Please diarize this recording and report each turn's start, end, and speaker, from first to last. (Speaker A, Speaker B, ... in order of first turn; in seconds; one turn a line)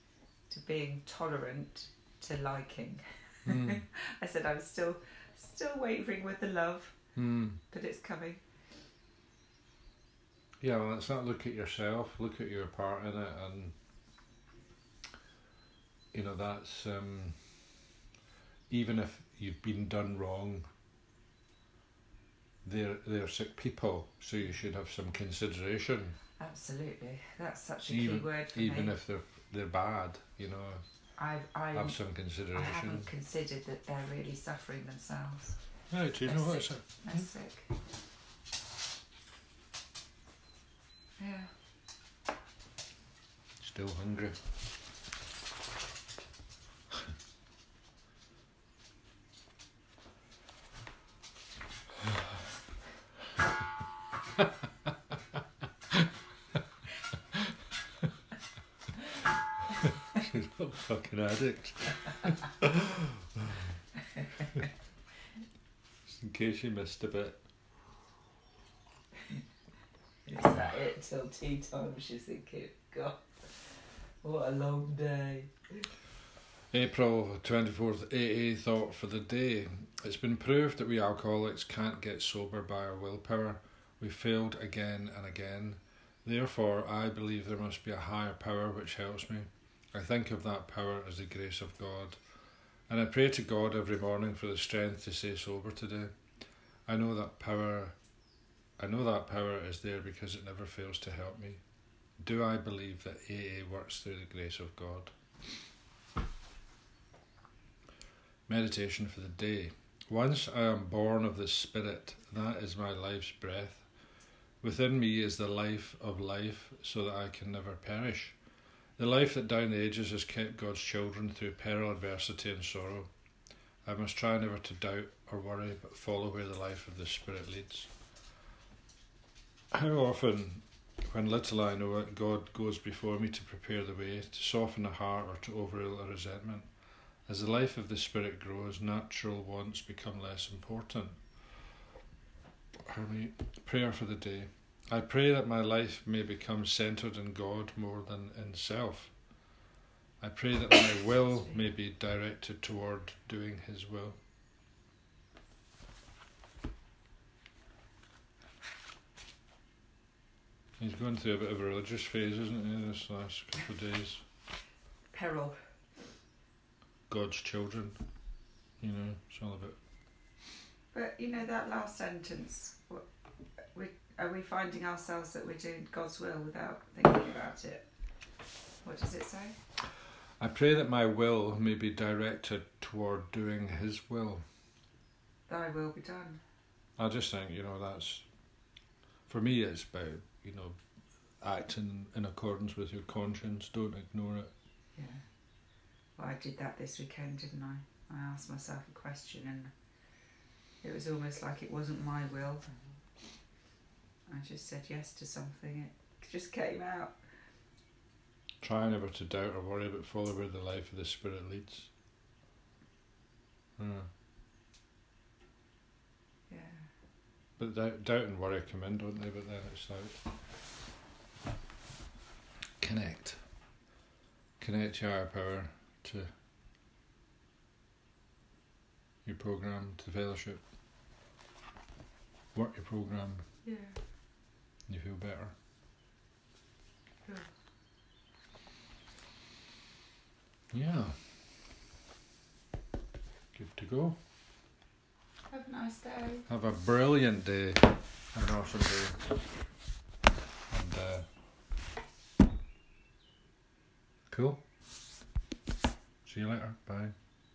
Speaker A: 0.5-7.0
Speaker B: 3.5-3.8
Speaker B: 7.2-7.6
Speaker A: 7.7-8.4
Speaker B: 10.6-13.7
Speaker B: 16.1-17.5
Speaker B: 18.7-20.7
Speaker B: 22.6-26.2
Speaker A: 26.4-29.0
Speaker B: 27.9-30.8
Speaker A: 31.2-32.0
Speaker B: 31.7-33.1
Speaker A: 32.5-35.6
Speaker B: 35.9-37.3
Speaker A: 36.2-37.7
Speaker A: 41.2-41.5
Speaker B: 43.6-44.4
Speaker B: 59.8-63.7
Speaker B: 66.1-67.4
Speaker A: 70.3-75.9
Speaker B: 76.7-92.2
Speaker B: 92.9-96.1
Speaker B: 96.9-98.0
Speaker B: 98.8-101.6
Speaker B: 102.2-105.2
Speaker B: 108.5-113.9
Speaker B: 114.6-118.4
Speaker B: 119.0-123.1
Speaker B: 123.8-127.9
Speaker B: 129.7-136.7
Speaker B: 137.3-141.3
Speaker B: 142.8-149.2
Speaker B: 150.2-154.2
Speaker B: 160.8-164.2
Speaker A: 165.1-165.6
Speaker B: 167.1-168.0
Speaker B: 168.8-169.8
Speaker A: 170.9-173.1
Speaker A: 173.7-177.9
Speaker A: 178.8-179.6
Speaker B: 180.4-184.4
Speaker A: 185.5-186.4
Speaker B: 187.0-188.3
Speaker B: 189.3-190.8
Speaker B: 191.4-194.5
Speaker A: 194.9-195.2
Speaker A: 196.2-199.7
Speaker A: 200.8-202.7
Speaker A: 204.3-207.2
Speaker B: 208.6-211.9
Speaker B: 213.8-214.1
Speaker A: 216.5-216.9
Speaker B: 217.6-220.2
Speaker B: 222.8-223.4
Speaker B: 224.6-226.3
Speaker B: 229.2-230.6
Speaker B: 232.5-233.4
Speaker A: 233.6-234.0
Speaker B: 234.9-235.5
Speaker B: 240.7-241.2
Speaker B: 243.5-244.2
Speaker A: 245.5-246.5
Speaker B: 246.5-249.3
Speaker B: 250.7-251.3
Speaker B: 254.3-254.6
Speaker B: 256.2-257.1